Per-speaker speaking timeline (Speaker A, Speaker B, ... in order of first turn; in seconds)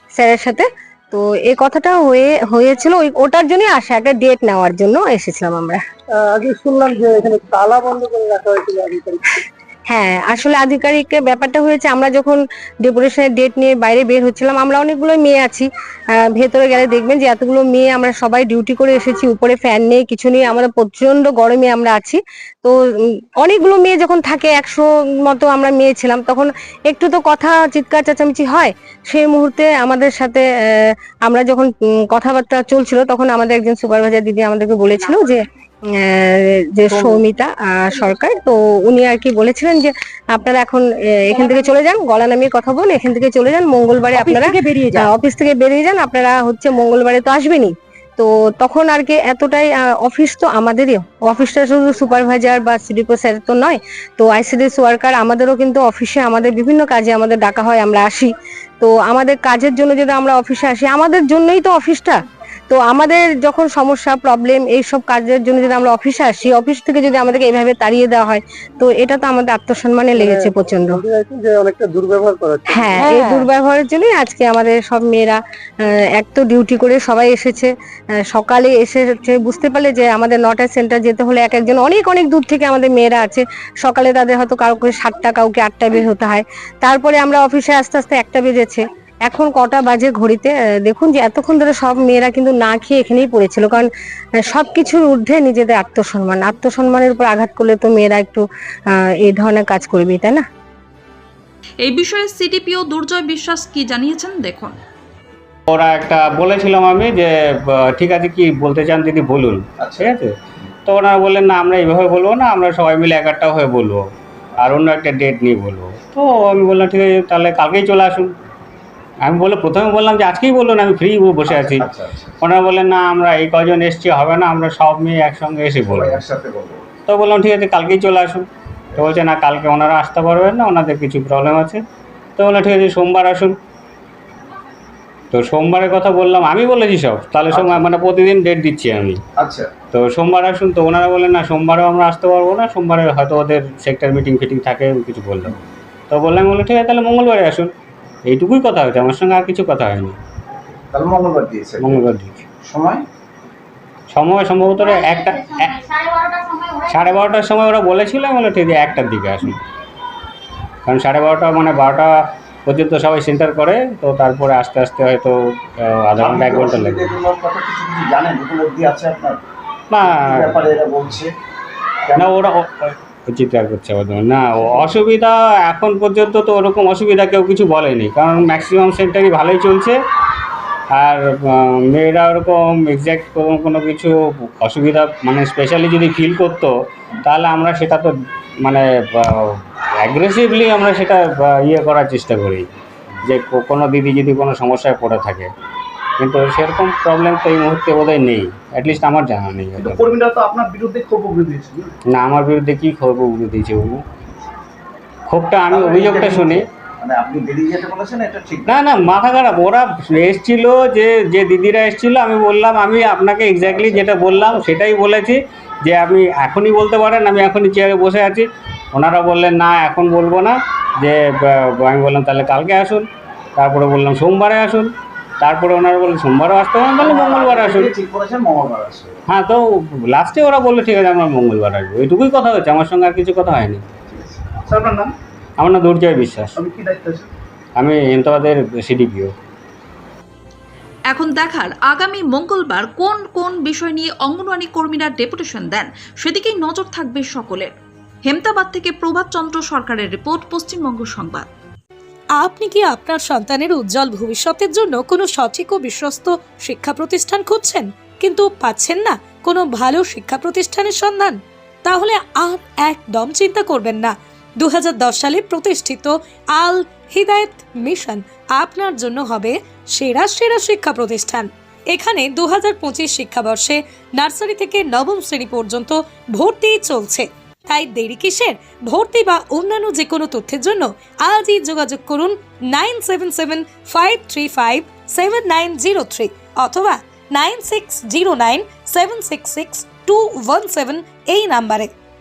Speaker A: 0.2-5.8, 9.9-15.7, 16.2-22.8, 23.4-35.4, 35.9-62.1, 62.7-71.0, 72.7-77.7, 78.3-93.9, 94.4-98.4, 99.0-100.4
Speaker B: 6.1-9.2, 70.2-73.0
Speaker C: 101.8-104.7, 241.1-247.7, 248.2-251.5
Speaker D: 105.7-110.3, 110.8-114.0, 114.6-118.3, 119.2-121.9, 122.4-126.2, 127.1-131.8, 132.4-133.5, 135.3-139.2, 139.9-145.5, 146.1-147.7, 148.2-150.2, 151.8-152.4, 154.1-155.8, 156.8-159.6, 160.8-162.1, 162.7-167.1, 169.9-170.8, 172.2-179.9, 180.9-186.7, 187.2-188.1, 188.6-192.7, 193.2-195.5, 196.2-200.1, 202.1-204.0, 205.3-206.7, 208.7-223.0, 223.6-224.9, 225.4-227.9, 229.3-233.8, 235.6-236.6, 237.8-239.3
Speaker E: 109.8-110.1, 121.5-122.4, 125.8-126.8, 137.5-137.9, 139.4-139.7, 150.9-152.1, 152.6-153.0, 166.2-169.4, 170.0-171.3, 172.1-172.3, 199.8-201.9, 205.7-208.8, 213.6-214.7, 227.0-229.2, 234.1-235.1, 236.6-237.3
Speaker F: 252.4-291.9